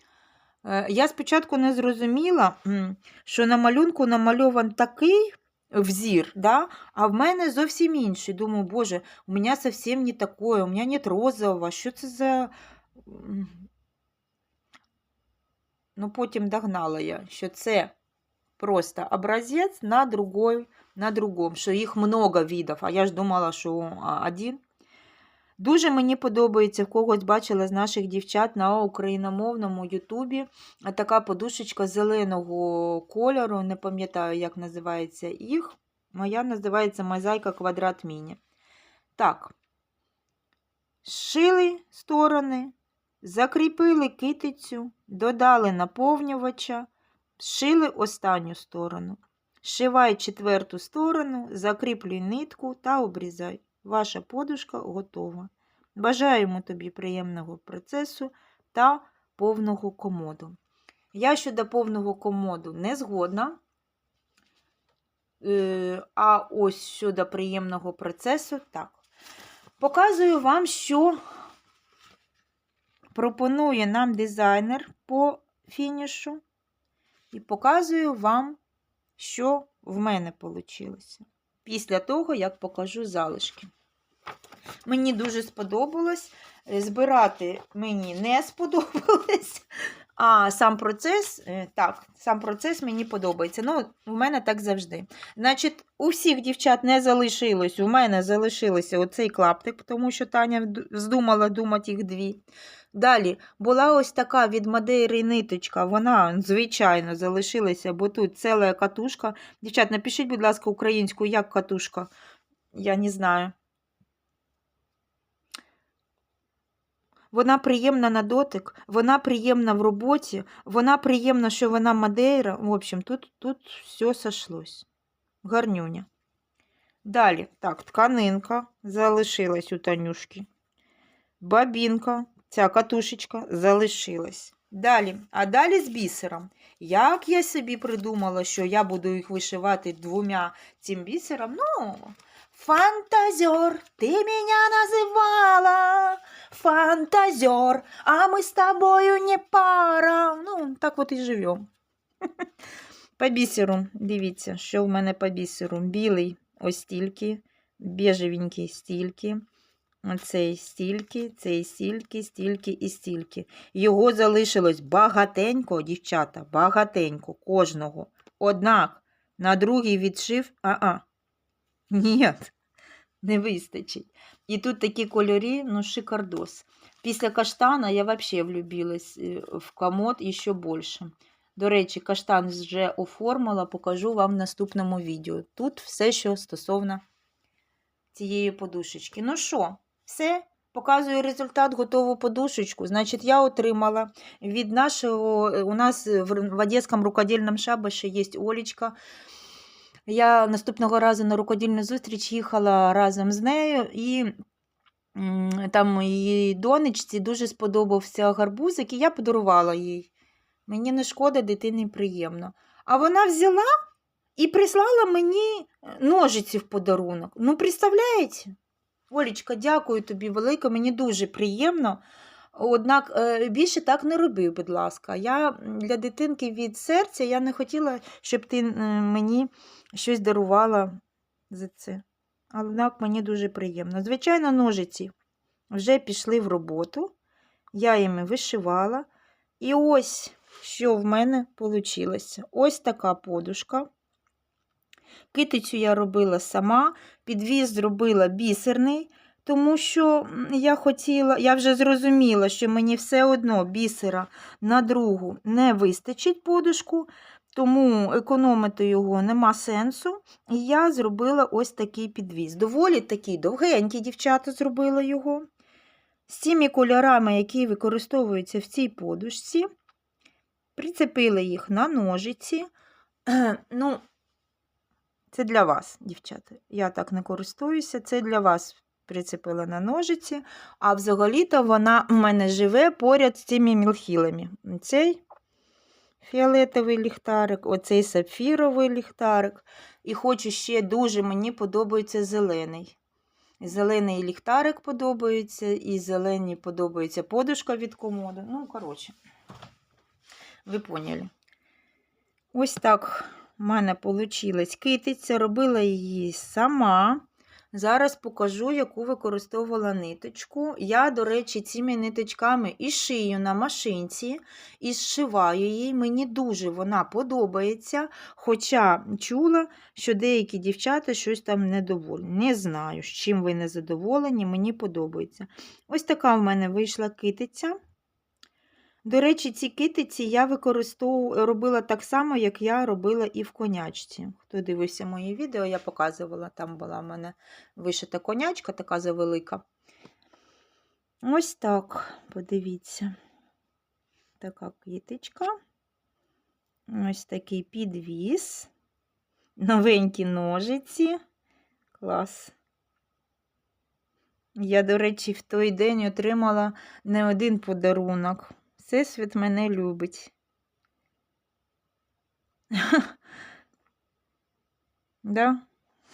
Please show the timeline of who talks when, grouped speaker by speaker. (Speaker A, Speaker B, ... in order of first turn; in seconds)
Speaker A: 0.6-13.6, 15.9-17.9, 18.6-24.6, 25.6-38.4, 39.2-39.5, 41.0-46.9, 47.4-60.5, 61.1-63.6, 65.4-69.0, 69.8-71.2, 73.1-76.4, 77.3-78.6, 79.2-83.7, 84.8-89.6, 90.2-102.4, 102.9-112.1, 112.7-113.5, 117.3-124.8, 125.4-126.1, 127.0-130.5, 131.4-151.6, 153.2-159.4, 160.0-171.0, 171.9-172.5, 173.2-187.0, 188.1-198.9, 200.1-204.3, 205.1-210.1, 210.7-213.7, 214.4-218.5, 219.1-222.0, 222.5-230.9, 231.5-235.1, 235.7-237.1, 237.7-239.1, 239.6-243.9, 245.3-265.4, 266.3-269.6, 270.8-272.7, 273.3-274.0, 275.3-285.2, 286.2-292.9, 293.6-299.1, 300.6-301.3, 302.5-327.8, 329.0-339.6, 341.2-343.1, 344.4-345.5, 346.9-348.7, 349.6-351.2, 352.0-352.5, 354.6-360.3, 362.7-363.1, 365.2-365.6